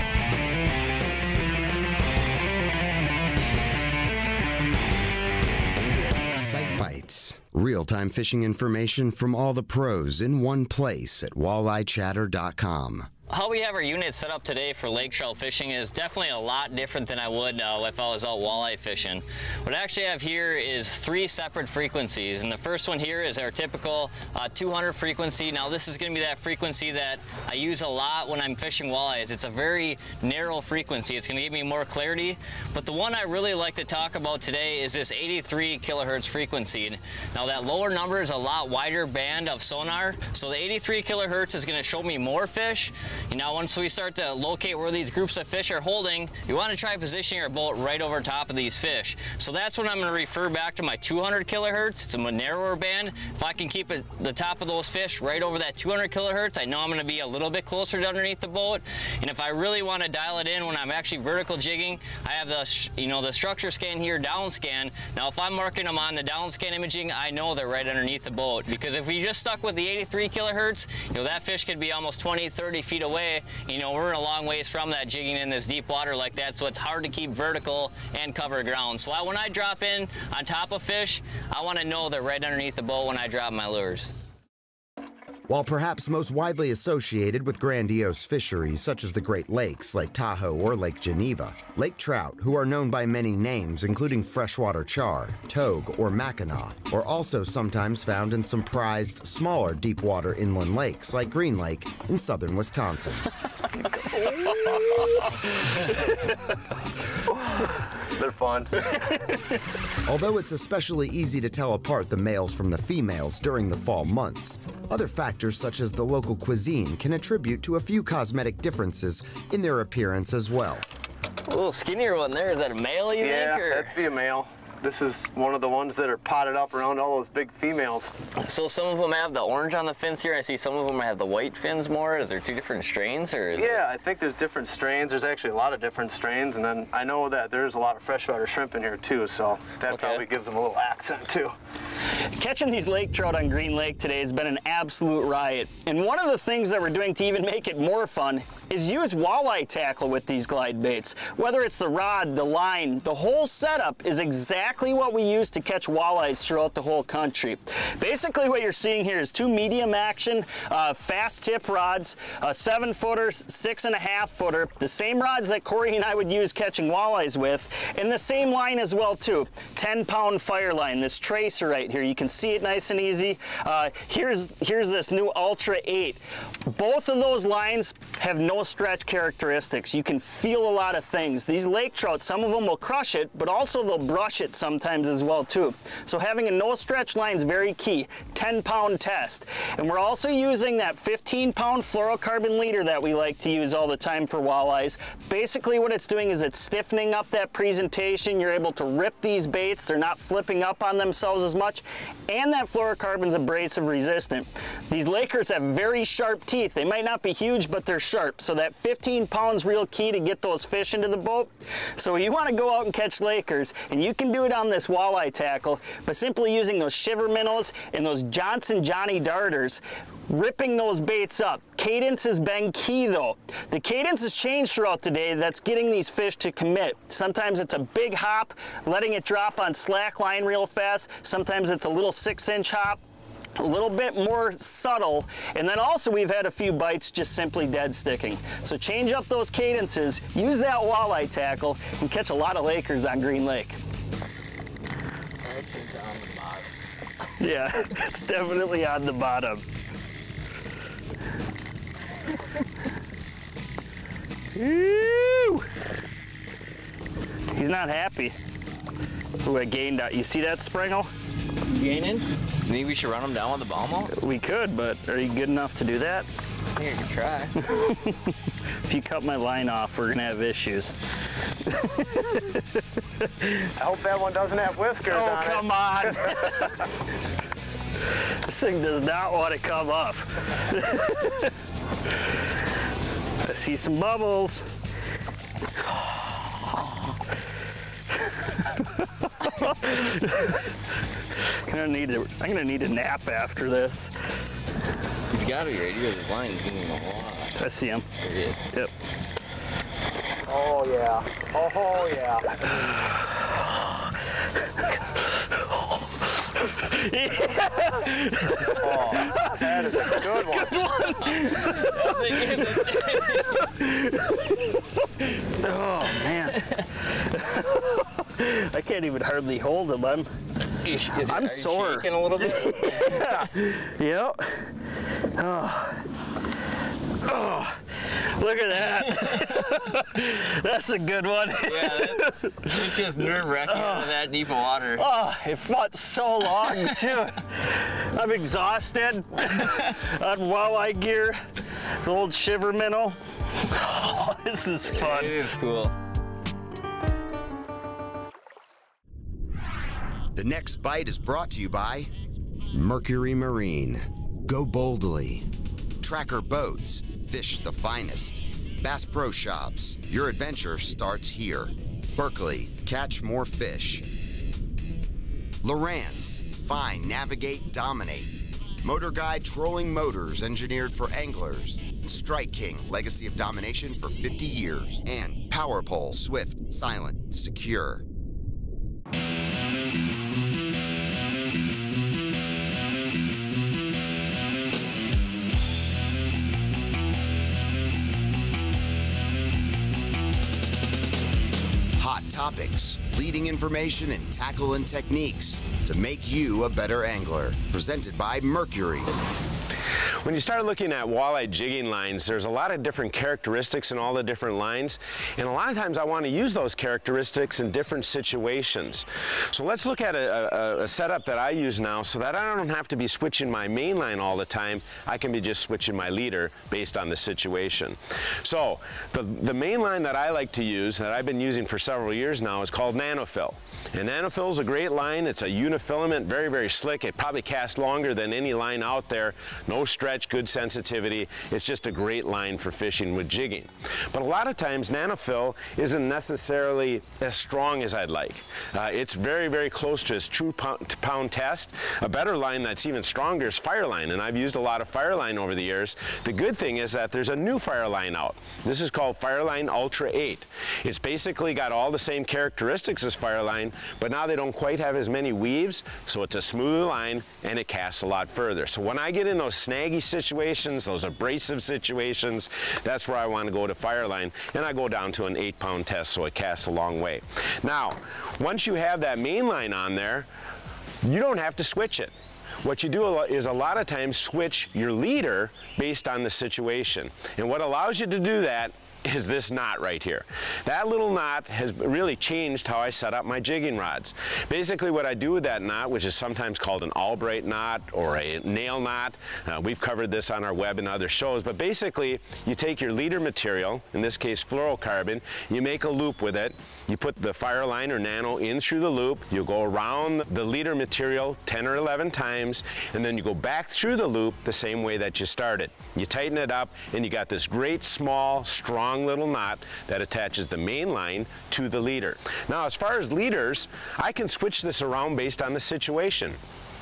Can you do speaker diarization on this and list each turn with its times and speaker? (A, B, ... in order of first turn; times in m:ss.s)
0:06.3-0:13.1 A
0:13.3-1:24.2 B
1:25.5-1:43.3 A
1:44.0-1:45.0 C
1:48.1-1:48.9 D
1:50.0-2:00.8 A
2:01.5-2:04.0 B
2:03.2-2:08.1 D
2:08.4-2:13.8 B
2:13.6-2:21.5 D
2:19.9-2:20.2 B
2:22.3-3:53.0 C
3:53.6-4:03.8 C
4:05.4-4:06.8 B
4:07.4-4:09.6 C
4:14.5-4:15.6 C
4:17.5-4:18.4 C
4:19.4-4:21.1 C
4:21.6-4:24.1 B
4:24.1-4:26.3 C
4:26.7-4:27.6 B
4:27.6-4:28.3 C
4:28.8-4:30.9 C
4:31.6-4:33.7 C
4:33.8-4:36.5 D
4:35.1-4:36.9 C
4:38.4-4:41.5 C
4:43.4-4:44.6 C
4:48.8-4:50.7 C
4:51.6-4:54.1 C
4:55.3-4:57.6 B
4:57.6-4:58.0 C
4:58.2-4:58.6 B
5:00.5-5:02.7 D
5:06.4-5:20.3 C
5:08.6-5:10.9 D
5:11.2-5:13.7 B
5:20.8-5:23.5 B
5:21.2-5:26.1 C
5:27.2-5:32.9 C
5:31.6-5:35.0 B
5:33.6-5:34.1 C
5:35.0-5:41.4 C
5:42.0-5:45.4 C
5:44.9-5:45.9 B
5:50.3-5:52.1 A
5:52.7-5:55.5 A
5:56.0-6:04.1 A
6:05.6-6:18.0 A
6:32.0-6:39.1 A
6:40.2-7:50.3 E
7:51.0-7:52.1 E
7:52.6-8:36.4 E